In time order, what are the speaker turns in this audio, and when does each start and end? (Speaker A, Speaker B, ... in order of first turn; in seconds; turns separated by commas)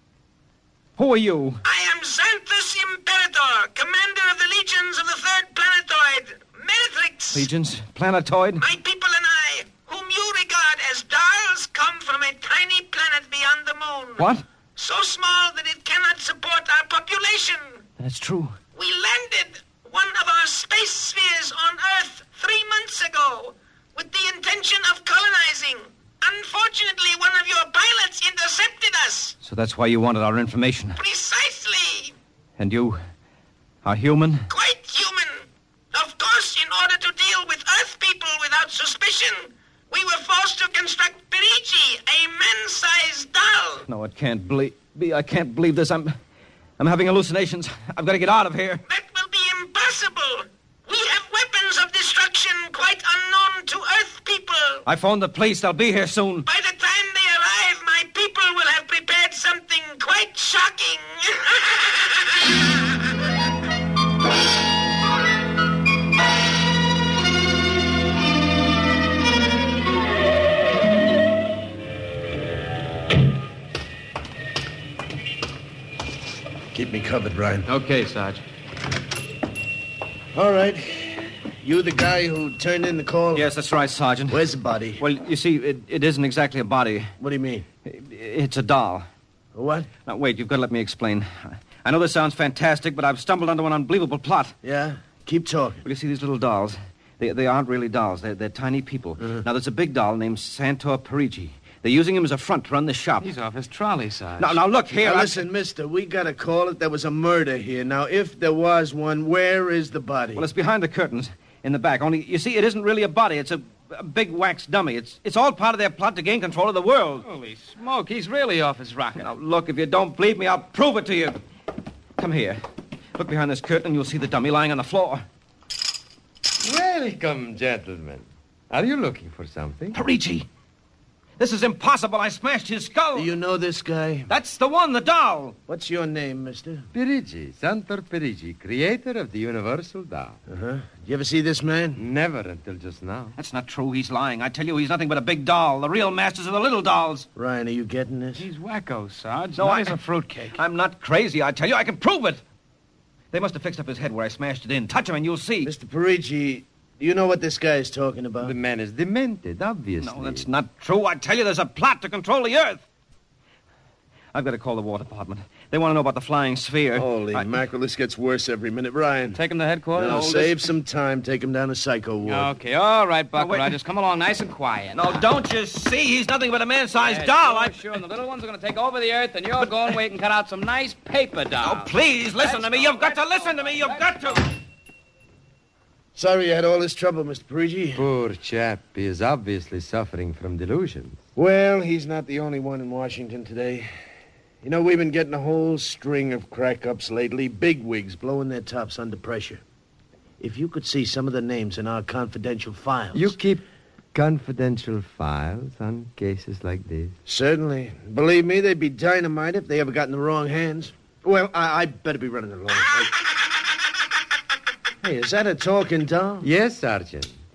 Speaker A: 1.0-1.6, Speaker B: 1.6-7.5, Speaker A: 7.3-8.6, Speaker B: 8.6-17.8, Speaker A: 14.2-14.4, Speaker A: 18.0-18.6, Speaker B: 18.7-29.4, Speaker A: 29.4-31.0, Speaker B: 30.9-32.1, Speaker A: 32.6-33.0, Speaker A: 33.8-34.5, Speaker B: 34.5-43.8, Speaker A: 43.9-46.1, Speaker A: 46.8-48.8, Speaker B: 48.9-54.8, Speaker A: 54.8-56.5, Speaker B: 56.5-62.6, Speaker C: 76.7-77.7, Speaker D: 77.7-78.4, Speaker C: 80.3-83.5, Speaker A: 83.3-87.1, Speaker C: 84.3-85.0, Speaker C: 87.2-87.7, Speaker A: 87.8-89.1, Speaker C: 89.5-89.9, Speaker A: 90.0-94.5, Speaker C: 94.6-95.8, Speaker A: 95.8-103.3, Speaker D: 103.2-104.6, Speaker A: 104.4-105.4, Speaker C: 104.9-110.5, Speaker A: 110.3-117.3, Speaker D: 117.2-119.3, Speaker A: 119.2-121.4, Speaker A: 122.2-122.6, Speaker A: 123.2-125.2, Speaker E: 126.6-130.0, Speaker A: 129.9-130.5, Speaker A: 131.4-133.3, Speaker C: 133.1-134.3, Speaker A: 134.3-135.6, Speaker C: 135.7-136.8, Speaker E: 136.9-140.4, Speaker C: 140.5-142.0, Speaker E: 141.9-143.3, Speaker A: 143.3-147.3, Speaker C: 147.3-148.5, Speaker D: 148.3-150.6, Speaker A: 149.6-152.4, Speaker A: 153.3-155.7, Speaker C: 155.6-158.5, Speaker E: 158.4-160.5, Speaker A: 160.0-162.8, Speaker A: 164.3-167.6, Speaker C: 166.9-169.4, Speaker D: 169.3-170.6, Speaker C: 169.9-172.5, Speaker D: 172.2-175.2, Speaker A: 173.3-173.8, Speaker A: 174.9-177.8, Speaker D: 177.0-184.2, Speaker A: 181.6-184.4, Speaker C: 186.2-188.1, Speaker E: 187.9-191.2, Speaker C: 191.3-193.9, Speaker C: 194.6-199.6, Speaker C: 200.4-203.3, Speaker E: 203.1-203.6, Speaker E: 204.1-207.1, Speaker C: 207.2-213.1, Speaker C: 215.0-216.5, Speaker E: 216.4-217.3